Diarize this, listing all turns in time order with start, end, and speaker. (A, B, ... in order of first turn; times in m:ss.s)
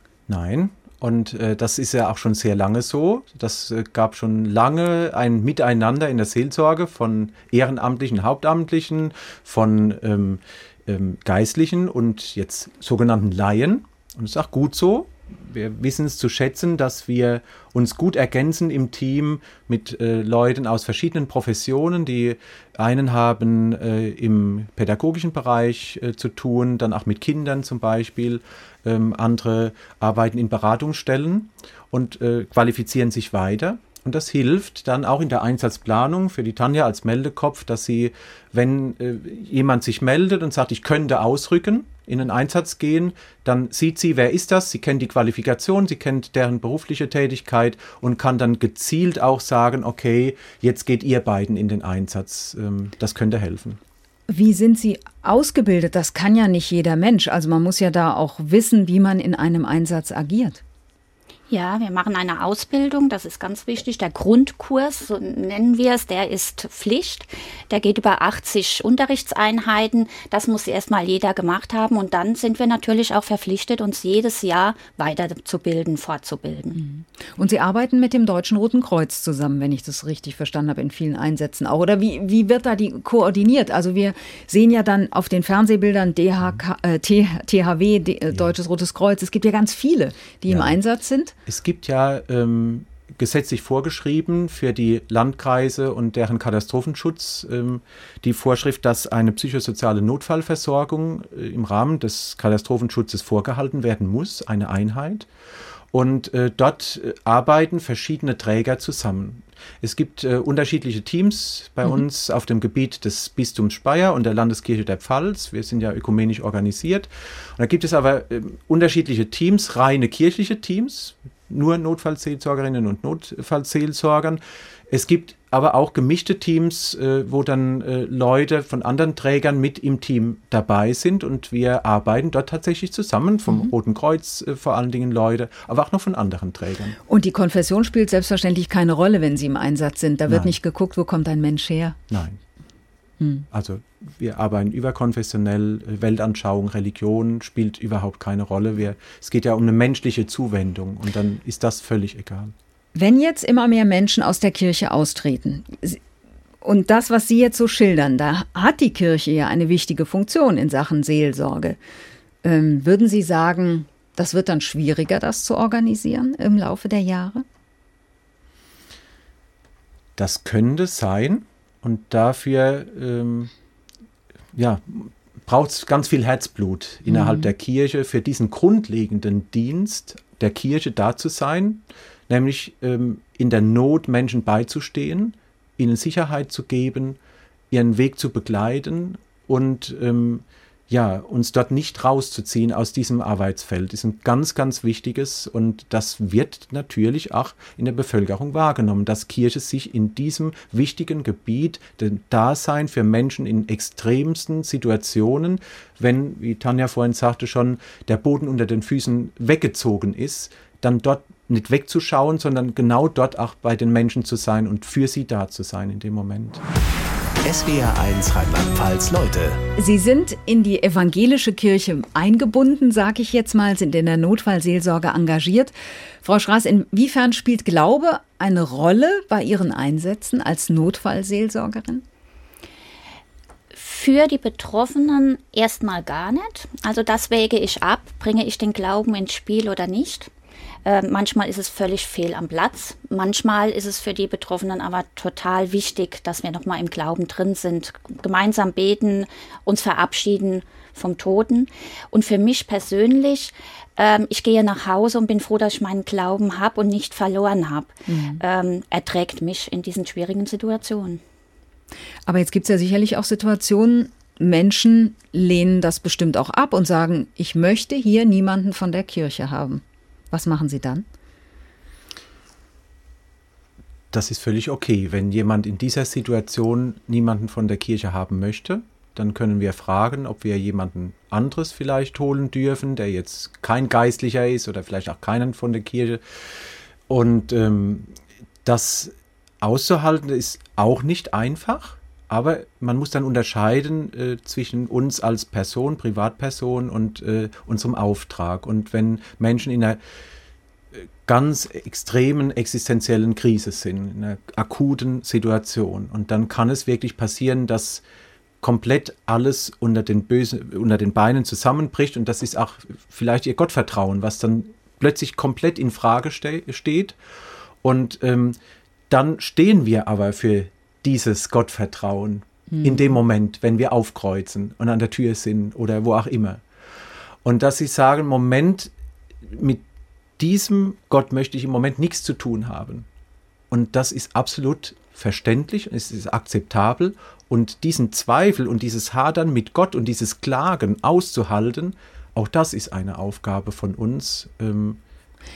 0:00.3-0:53.8 A
0:54.3-1:00.6 B
1:01.5-1:16.8 C
1:16.8-1:31.4 B
1:30.5-1:30.8 A
1:31.5-1:45.3 A
1:45.9-2:17.0 A
2:17.1-2:22.0 B
2:20.3-2:20.6 A
2:22.1-2:22.4 A
2:23.2-2:23.5 B
2:23.5-2:32.6 A
2:33.0-2:36.0 B
2:36.6-2:41.8 B
2:42.4-2:47.4 B
2:50.2-2:53.5 A
2:54.5-3:07.2 A
3:07.7-3:36.6 A
3:37.4-3:39.6 D
3:39.8-3:52.0 B
3:53.7-4:00.3 C
4:00.8-4:21.2 C
4:18.1-4:18.4 B
4:22.3-4:31.0 B
4:34.1-4:46.2 A
4:47.1-5:00.0 A
5:00.9-5:08.0 A
5:08.6-5:17.2 A
5:17.8-5:18.6 A
5:19.1-5:26.6 A
5:27.4-5:29.8 A
5:30.4-5:33.1 A
5:33.7-5:45.0 A